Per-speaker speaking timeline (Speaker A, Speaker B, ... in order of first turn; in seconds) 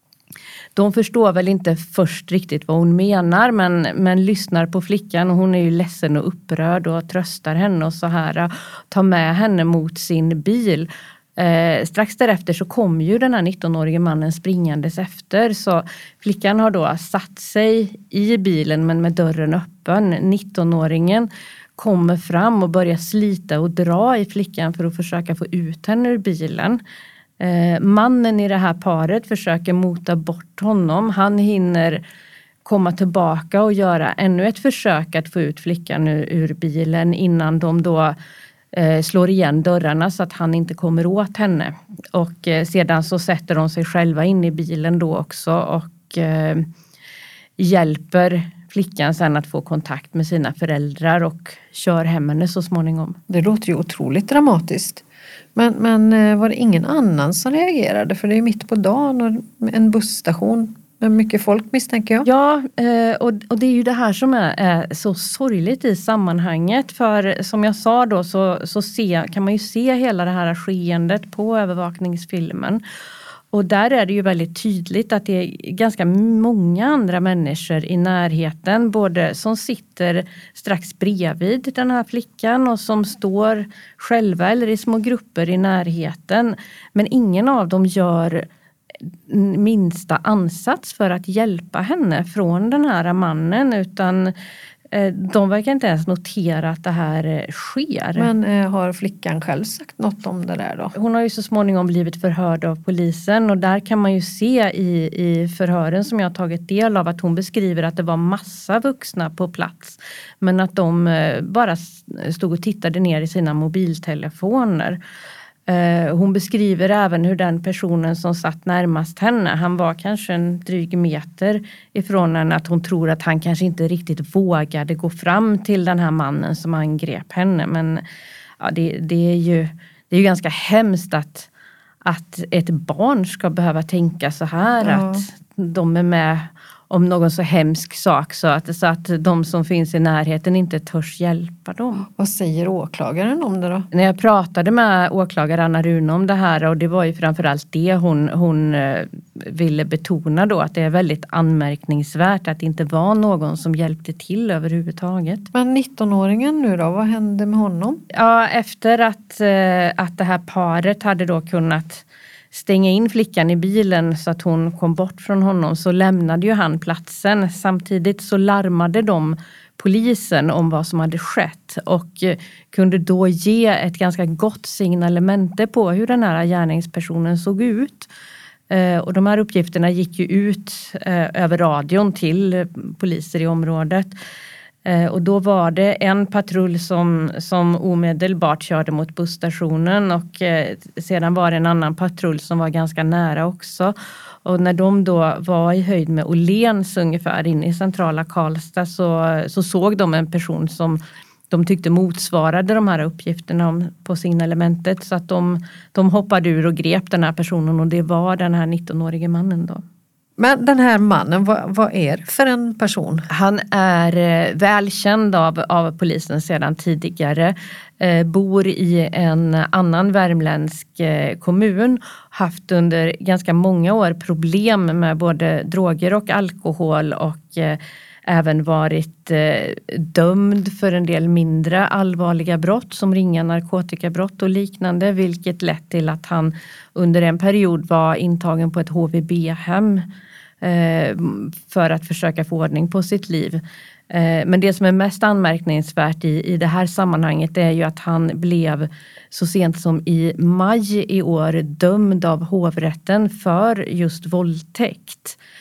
Speaker A: 0.8-26.8, 27.4-32.0, 32.6-38.2, 38.7-46.7, 47.6-53.2, 62.2-72.8, 73.5-88.5, 89.3-94.3, 94.9-98.3, 100.9-115.0, 115.7-128.0, 128.6-131.5, 132.0-142.1, 143.9-155.5, 158.1-178.1, 178.7-184.1, 184.8-209.8, 213.3-240.1, 240.6-255.4
Speaker B: 53.3-55.0, 55.5-62.3, 98.2-100.9, 134.8-135.2, 142.1-143.9, 155.5-158.0, 210.4-213.3